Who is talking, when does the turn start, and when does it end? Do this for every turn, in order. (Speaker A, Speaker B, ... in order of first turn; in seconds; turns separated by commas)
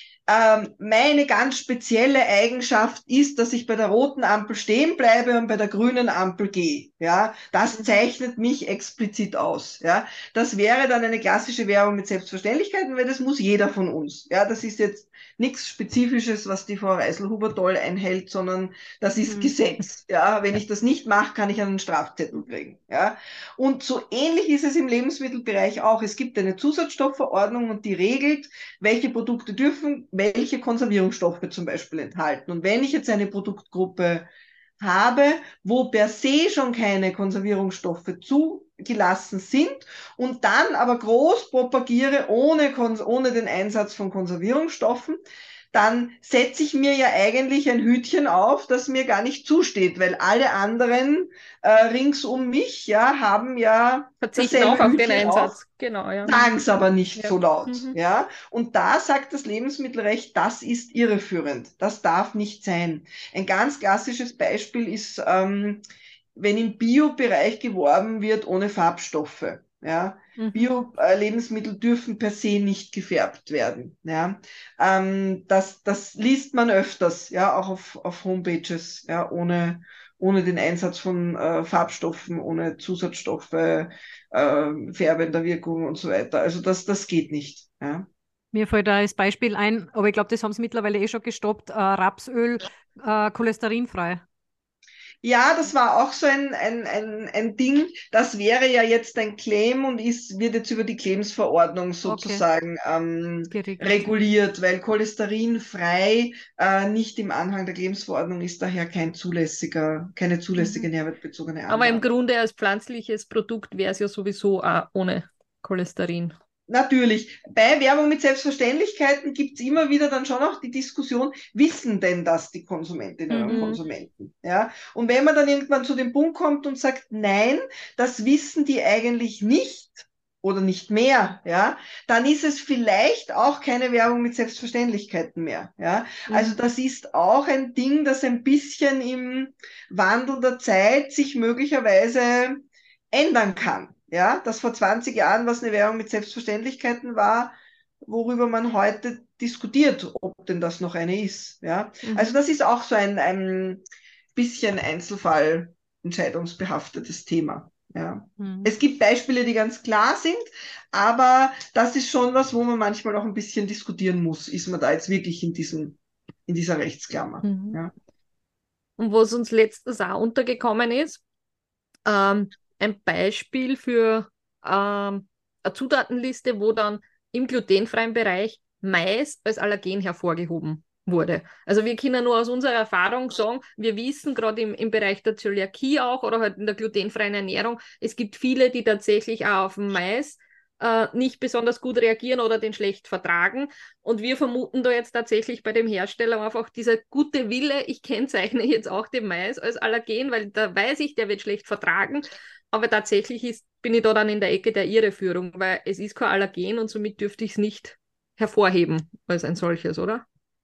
Speaker A: 0.3-34.3, Speaker B: 19.2-19.5, Speaker A: 34.8-45.2, Speaker A: 45.7-55.6, Speaker C: 54.2-56.4, Speaker A: 56.3-65.8, Speaker C: 57.2-58.0, Speaker A: 66.4-88.1, Speaker B: 88.5-94.2, Speaker A: 95.2-112.1, Speaker B: 102.1-102.4, Speaker B: 103.5-104.2, Speaker B: 110.6-110.8, Speaker C: 111.7-116.3, Speaker A: 116.7-153.8, Speaker B: 123.3-123.6, Speaker C: 123.5-123.8, Speaker A: 154.3-167.9, Speaker B: 158.4-158.7, Speaker C: 167.4-167.8, Speaker C: 169.0-171.2, Speaker C: 172.1-210.2